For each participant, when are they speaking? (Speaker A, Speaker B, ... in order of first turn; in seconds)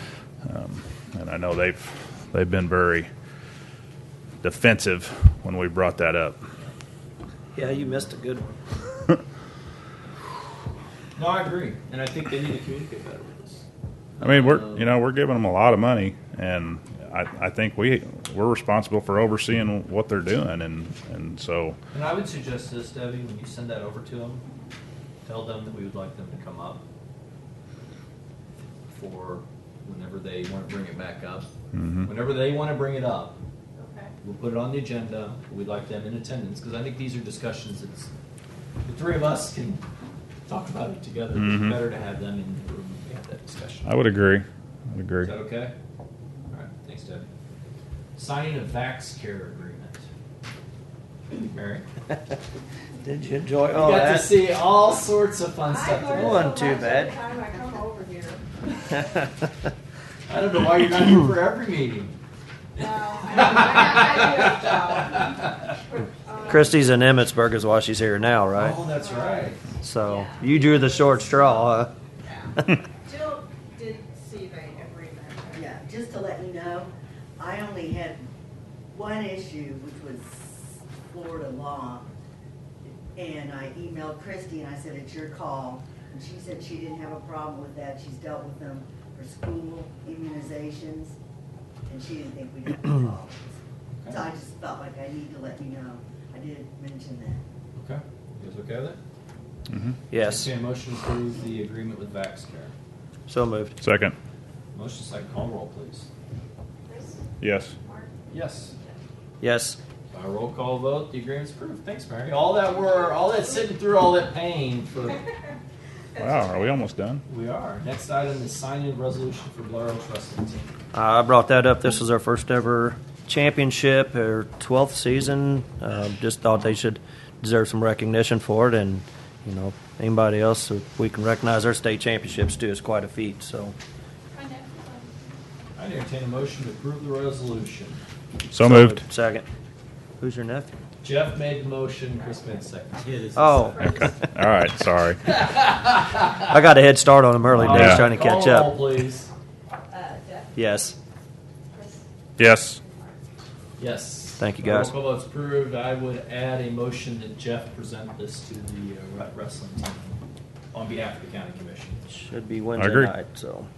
Speaker A: 0.4-3.1, 4.4-6.4, 14.2-21.8, 31.7-32.1, 41.4-41.8, 43.9-45.3, 99.7-100.0, 103.8-104.2, 107.4-107.8, 116.2-117.2, 138.5-139.1, 144.3-145.2, 147.6-148.1, 152.4-152.8, 162.8-163.1
Speaker B: 7.5-8.5, 53.0-54.4, 56.0-57.2, 66.5-68.8, 69.8-71.9, 100.1-100.5, 103.3-103.8, 109.4-109.8, 120.9-133.8, 138.5-139.5, 140.2-140.7, 143.3-144.0, 146.5-148.8, 150.6-151.0, 154.4-154.9, 162.1-163.7
Speaker C: 11.2-13.7, 14.2-14.9, 21.9-24.4, 25.2-26.8, 28.9-31.5, 32.0-33.4, 34.2-38.1, 38.8-39.9, 40.5-43.9, 45.2-45.7, 46.5-47.3, 48.2-50.0, 51.3-51.9, 53.7-56.6, 60.3-62.1, 62.8-65.5, 68.6-69.7, 94.0-94.3, 97.8-99.0, 100.2-102.7, 104.7-106.1, 108.3-108.7, 110.1-115.2, 117.3-120.7, 135.8-138.0, 141.0-144.3, 145.2-146.5, 147.6-149.3, 153.8-160.2, 160.7-162.1
Speaker D: 33.8-34.1, 55.6-58.4, 62.8-66.9, 69.0-69.5, 70.0-71.5, 73.1-75.6, 106.9-107.2, 107.8-108.1, 116.2-116.7, 134.3-135.3, 149.9-150.6, 151.7-153.2
Speaker E: 75.5-78.2, 78.9-82.1, 82.8-91.2, 91.9-93.6, 94.1-97.4